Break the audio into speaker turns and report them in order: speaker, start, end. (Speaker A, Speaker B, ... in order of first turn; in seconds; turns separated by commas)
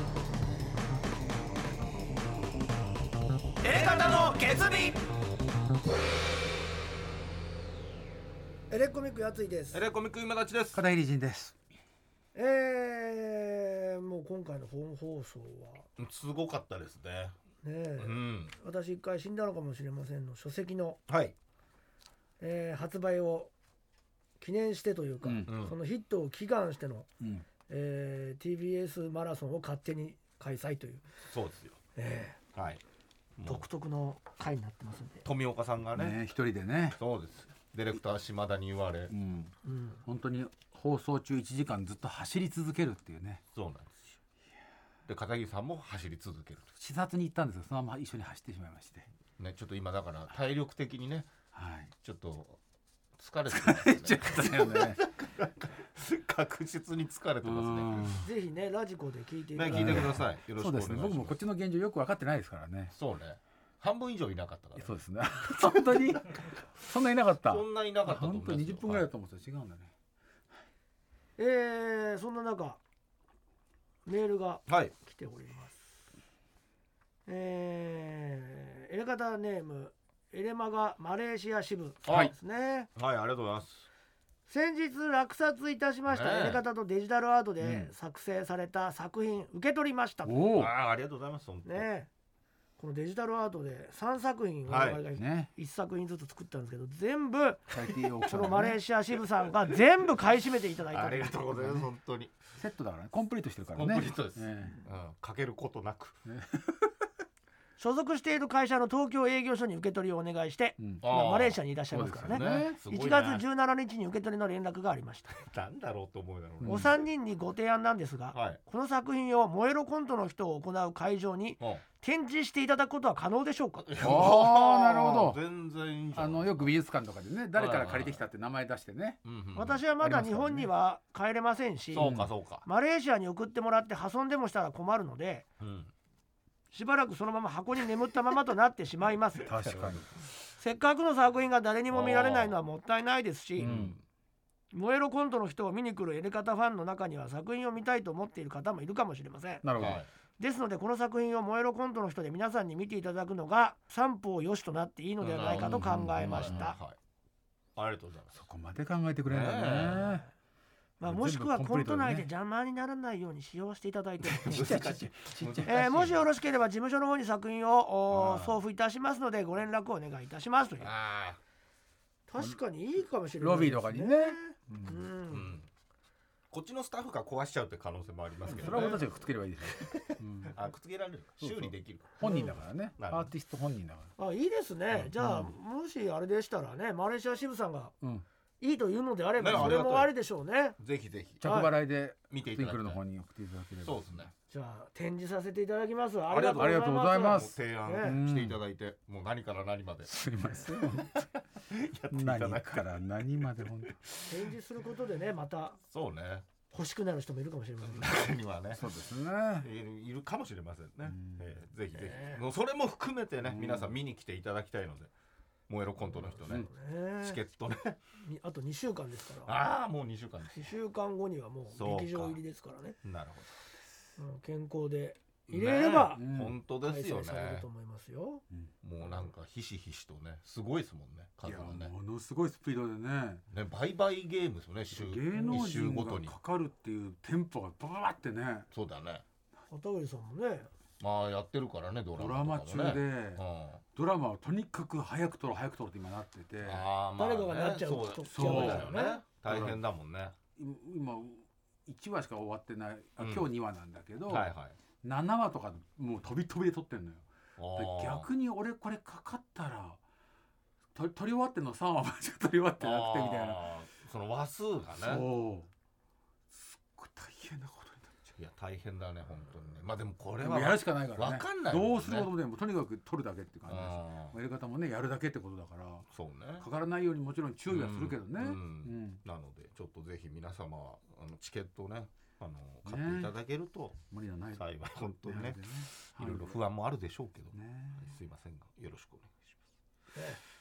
Speaker A: 3.6-5.0, Speaker A: 8.7-9.8, Speaker B: 9.7-10.8, Speaker C: 10.7-11.6, Speaker A: 12.3-15.9, Speaker B: 16.0-17.4, Speaker A: 17.6-21.0, Speaker B: 18.0-18.5, Speaker B: 21.1-21.4, Speaker A: 22.4-23.5, Speaker A: 24.4-27.1, Speaker C: 25.2-25.5, Speaker B: 25.5-25.8, Speaker C: 27.2-27.5, Speaker A: 27.7-31.1, Speaker B: 31.3-31.8, Speaker A: 31.9-32.4, Speaker B: 32.5-32.8, Speaker B: 33.4-33.6, Speaker A: 33.5-35.3, Speaker B: 35.2-36.2, Speaker C: 35.9-37.0, Speaker B: 36.9-39.1, Speaker C: 39.1-39.5, Speaker A: 39.6-40.0, Speaker C: 40.0-43.4, Speaker B: 43.5-44.2, Speaker B: 45.1-46.7, Speaker C: 46.8-49.1, Speaker B: 49.4-51.3, Speaker C: 51.5-51.9, Speaker B: 52.0-52.6, Speaker B: 53.2-58.2, Speaker C: 53.5-55.0, Speaker C: 57.4-58.3, Speaker A: 58.2-60.2, Speaker B: 59.5-61.4, Speaker C: 59.7-62.9, Speaker B: 62.9-65.0, Speaker C: 64.8-69.9, Speaker B: 65.5-66.4, Speaker B: 67.4-69.1, Speaker A: 71.4-72.8, Speaker A: 74.1-75.9, Speaker B: 74.7-74.9, Speaker A: 77.3-82.9, Speaker B: 82.1-82.3, Speaker B: 83.0-83.9, Speaker A: 84.5-90.5, Speaker B: 86.1-86.6, Speaker C: 87.6-87.9, Speaker C: 90.2-90.7, Speaker B: 90.5-91.9, Speaker A: 91.7-92.1, Speaker A: 92.8-101.7, Speaker B: 94.7-95.0, Speaker C: 95.1-95.5, Speaker C: 97.7-98.8, Speaker B: 100.8-102.4, Speaker C: 102.6-104.8, Speaker B: 103.7-106.2, Speaker C: 106.3-106.9, Speaker A: 107.8-115.4, Speaker B: 111.0-111.6, Speaker C: 111.9-112.8, Speaker B: 112.3-113.5, Speaker B: 115.3-117.0, Speaker C: 116.6-116.9, Speaker A: 116.7-123.9, Speaker B: 118.3-118.6, Speaker B: 123.8-126.7, Speaker C: 124.0-125.4, Speaker C: 126.1-129.2, Speaker B: 127.5-128.2, Speaker B: 129.2-129.8, Speaker A: 129.6-135.5, Speaker C: 130.0-130.7, Speaker B: 131.9-132.7, Speaker C: 132.0-132.3, Speaker B: 135.6-135.9, Speaker A: 136.7-139.5, Speaker C: 139.5-140.1, Speaker B: 139.5-140.0, Speaker A: 140.6-143.8, Speaker B: 141.9-142.6, Speaker B: 143.6-144.0, Speaker C: 143.6-144.0, Speaker A: 144.7-149.7, Speaker C: 149.6-150.0, Speaker B: 149.8-150.1, Speaker A: 150.4-156.8, Speaker B: 155.2-157.0, Speaker C: 155.4-156.8, Speaker B: 157.8-158.5, Speaker C: 158.3-160.3, Speaker B: 159.3-160.1, Speaker A: 159.9-160.2, Speaker A: 161.0-170.9, Speaker C: 161.0-162.3, Speaker B: 164.2-166.2, Speaker C: 164.5-164.8, Speaker B: 168.1-168.6, Speaker B: 170.8-171.4, Speaker A: 172.3-175.5, Speaker C: 173.4-175.1, Speaker B: 175.3-175.7, Speaker B: 176.5-179.1, Speaker C: 178.5-180.6, Speaker B: 179.7-183.3, Speaker C: 181.4-184.1, Speaker A: 182.2-182.6, Speaker A: 184.2-187.9, Speaker B: 184.9-185.2, Speaker C: 185.2-185.5, Speaker A: 188.6-190.8, Speaker B: 189.4-190.2, Speaker B: 190.8-191.5, Speaker C: 191.4-194.3, Speaker A: 191.4-191.7, Speaker B: 192.3-193.0, Speaker B: 193.8-194.3, Speaker A: 194.5-198.2, Speaker B: 196.3-203.0, Speaker C: 196.3-198.6, Speaker C: 200.1-201.1, Speaker C: 202.1-204.1, Speaker B: 203.6-203.9, Speaker A: 204.3-205.8, Speaker B: 205.9-206.5, Speaker A: 206.7-208.2, Speaker B: 207.8-208.9, Speaker C: 208.7-209.7, Speaker B: 209.6-215.1, Speaker C: 211.1-211.5, Speaker A: 212.0-212.4, Speaker C: 213.4-213.9, Speaker B: 215.7-216.7, Speaker C: 216.2-216.7, Speaker A: 216.5-217.4, Speaker B: 217.2-218.0, Speaker A: 218.2-219.6, Speaker B: 219.4-220.8, Speaker A: 220.5-223.0, Speaker B: 221.7-222.4, Speaker B: 223.0-223.7, Speaker A: 224.2-226.2, Speaker B: 225.5-227.7, Speaker C: 226.1-226.6, Speaker A: 226.8-228.4, Speaker B: 228.8-231.9, Speaker C: 231.4-233.4, Speaker B: 233.5-236.4, Speaker C: 234.9-238.7, Speaker B: 238.7-239.2, Speaker A: 239.7-240.7, Speaker B: 241.0-243.8, Speaker C: 242.1-243.4, Speaker C: 243.9-246.9, Speaker B: 246.6-250.3, Speaker A: 247.2-249.2, Speaker C: 248.3-249.8, Speaker C: 250.6-254.5, Speaker B: 253.2-253.5, Speaker B: 254.3-254.8, Speaker C: 255.0-260.0, Speaker B: 257.6-258.3, Speaker C: 260.9-263.7, Speaker B: 262.8-265.3, Speaker C: 265.0-265.7, Speaker C: 266.5-268.3, Speaker B: 268.4-272.3, Speaker C: 270.4-276.1, Speaker B: 273.7-274.4, Speaker B: 276.1-276.7, Speaker C: 276.6-279.2, Speaker B: 277.7-284.0, Speaker C: 282.9-283.4, Speaker C: 284.1-286.6, Speaker B: 284.6-289.5, Speaker C: 287.5-288.1